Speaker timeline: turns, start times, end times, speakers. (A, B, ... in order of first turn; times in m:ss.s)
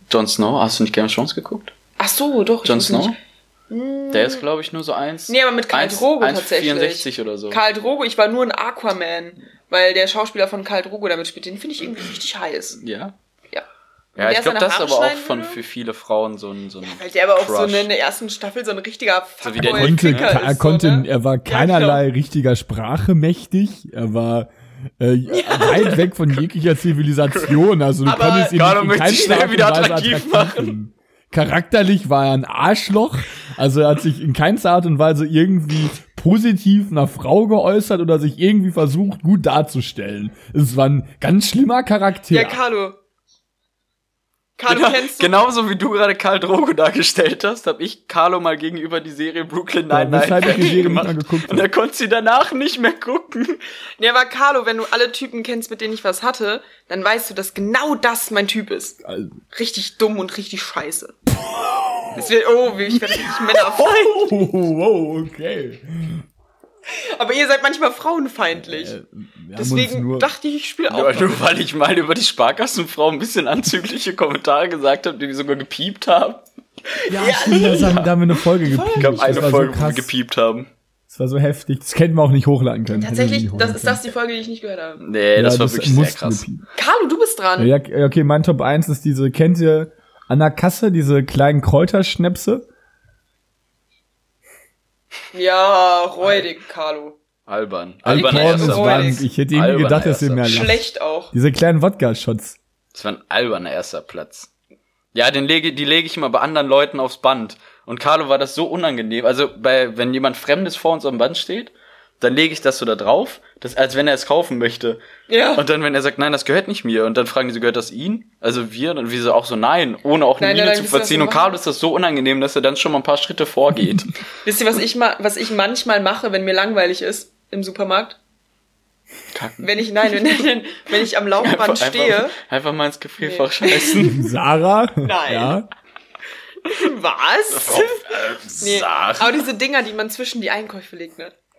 0:00.1-0:01.7 A
0:02.0-0:03.2 B
0:02.6-0:03.2 A
0:03.7-0:04.4 B
0:04.1-0:07.6 A
0:05.3-0:12.8 B
0:12.8-0:13.1 A
0:14.2-0:15.6 B
0:14.2-0:17.9 A
0:16.8-0:22.0 B
0:19.4-0:20.4 A
0:19.6-0:42.6 C
0:25.3-0:26.1 B
0:27.3-0:30.8 A
0:28.0-0:28.6 B
0:42.3-0:43.0 B
0:44.6-0:45.3 B
0:44.7-0:53.6 A
0:49.9-0:51.7 C
0:50.4-0:50.8 B
0:54.0-0:59.0 B
0:59.0-0:59.4 C
0:59.5-1:01.1 B
1:01.6-1:02.2 C
1:02.1-1:04.4 B
1:03.2-1:06.2 C
1:06.9-1:09.0 B
1:08.6-1:10.3 C
1:09.6-1:11.4 B
1:10.9-1:16.4 A
1:16.9-1:18.0 B
1:17.1-1:20.1 C
1:17.7-1:18.4 A
1:18.6-1:19.6 B
1:19.0-1:20.7 A
1:21.1-1:24.0 C
1:22.9-1:25.0 B
1:25.0-1:26.4 A
1:25.4-1:26.6 C
1:26.8-1:27.7 B
1:27.6-1:32.7 C
1:35.3-1:37.2 B
1:37.5-1:40.7 A
1:38.0-1:39.3 B
1:38.0-1:42.6 C
1:40.4-1:41.3 B
1:42.9-1:44.5 A
1:45.1-1:55.0 A
1:55.3-1:55.6 B
1:55.6-2:04.1 A
2:00.4-2:01.6 B
2:03.8-2:04.1 C
2:04.4-2:08.2 B
2:09.3-2:10.2 A
2:09.6-2:12.3 B
2:11.4-2:14.3 A
2:13.2-2:14.2 B
2:14.0-2:15.7 C
2:15.0-2:15.6 B
2:16.7-2:18.0 B
2:17.5-2:19.4 A
2:18.6-2:21.3 B